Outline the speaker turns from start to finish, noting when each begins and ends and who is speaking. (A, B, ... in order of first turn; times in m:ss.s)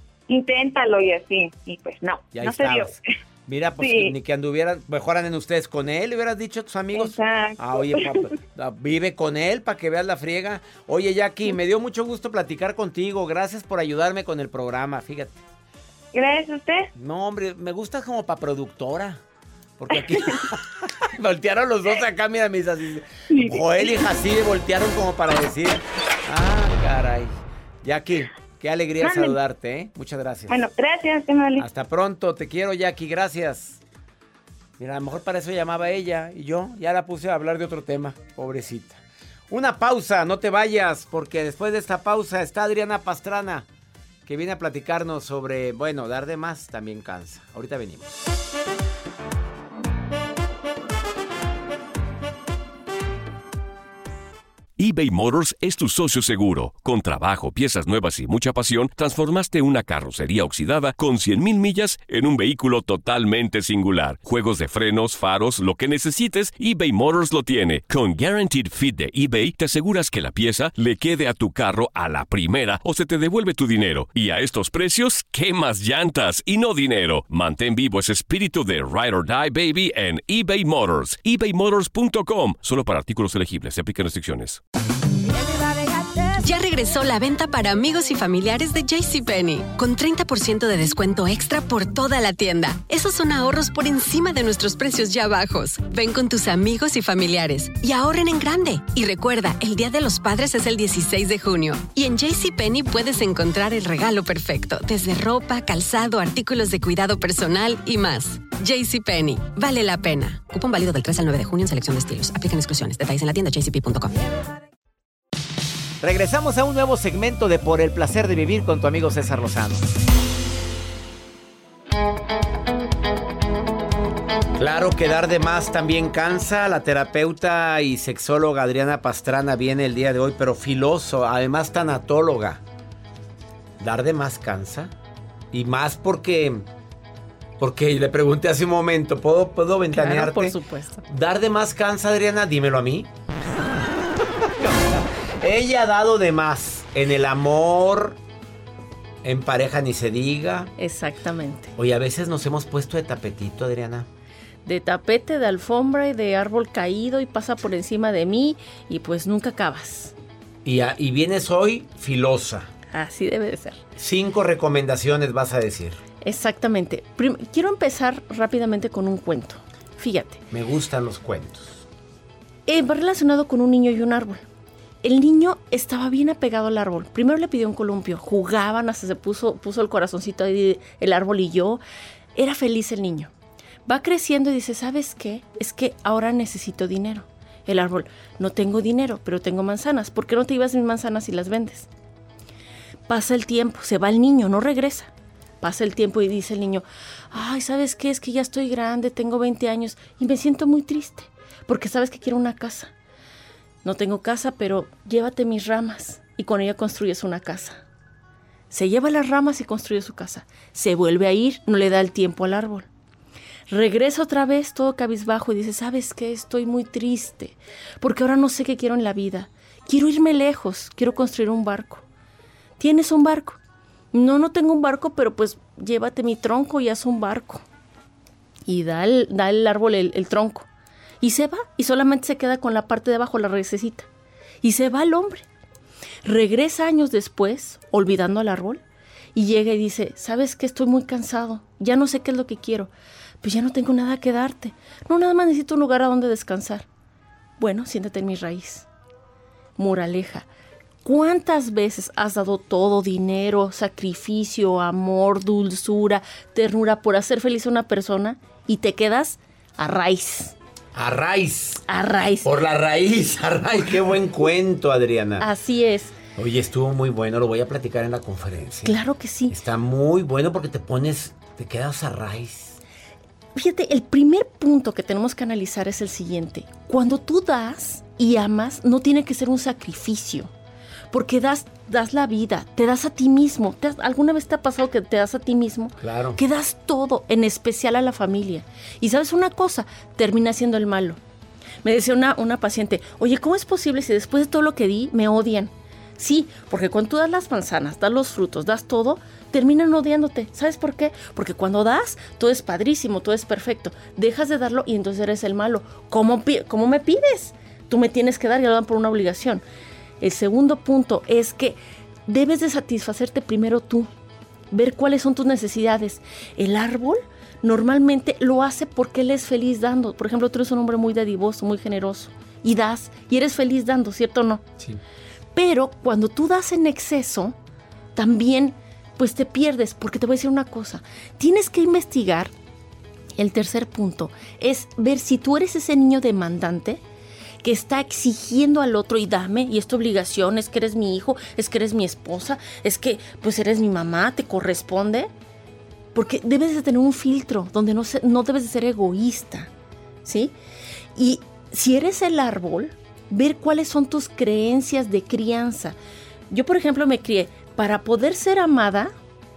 0:00.3-0:03.0 A
0:02.3-0:03.0 B
0:03.5-0:15.4 B
0:03.8-0:04.1 A
0:07.0-0:08.1 A
0:16.1-0:16.9 A
0:16.9-0:19.2 B
0:19.8-0:30.6 B
0:23.3-0:23.9 A
0:29.0-0:29.4 A
0:30.5-0:31.6 A
0:31.6-0:33.8 B
0:34.8-0:43.7 B
0:44.2-0:48.1 B
0:54.8-1:24.6 C
1:26.4-1:54.2 D
1:56.0-1:59.9 B
2:04.6-2:12.6 B
2:13.8-2:14.9 B
2:15.5-2:16.6 B
2:17.6-2:23.1 B
2:19.9-2:21.0 E
2:24.4-2:28.2 B
2:29.2-2:30.7 B
2:30.8-2:31.7 E
2:31.8-2:34.1 B
2:34.6-2:40.1 E
2:40.6-2:42.7 B
2:42.9-2:43.8 E
2:44.0-2:46.0 B
2:46.2-2:50.4 E
2:50.5-2:51.8 B
2:52.7-2:54.4 E
2:55.0-3:01.8 E
3:02.4-3:03.3 E
3:03.9-3:11.9 E
3:13.1-3:22.9 E
3:23.8-3:27.8 E
3:28.7-3:32.9 E
3:33.7-3:42.0 E
3:42.8-3:43.6 E
3:44.1-3:47.6 E
3:48.6-3:50.6 E
3:51.2-3:54.1 E
3:54.6-3:55.4 E
3:56.2-3:58.8 E
3:59.4-4:02.9 E
4:03.4-4:06.9 E
4:07.6-4:08.9 E
4:09.8-4:10.5 E
4:11.0-4:20.5 E
4:21.0-4:21.8 B
4:21.9-4:22.5 E
4:22.4-4:25.5 B
4:25.4-4:26.2 E
4:26.4-4:28.9 B
4:28.8-4:29.6 E
4:29.5-4:32.8 B
4:33.5-4:40.5 E
4:41.1-4:51.2 E
4:46.0-4:46.4 B
4:51.8-5:09.6 E
5:10.2-5:14.1 E
5:14.7-5:24.7 E
5:25.5-5:27.5 E
5:28.1-5:32.5 E
5:33.4-5:37.0 E
5:37.6-5:45.3 E
5:46.1-5:49.7 E
5:50.2-5:50.5 E
5:51.2-5:56.0 E
5:56.5-5:59.1 E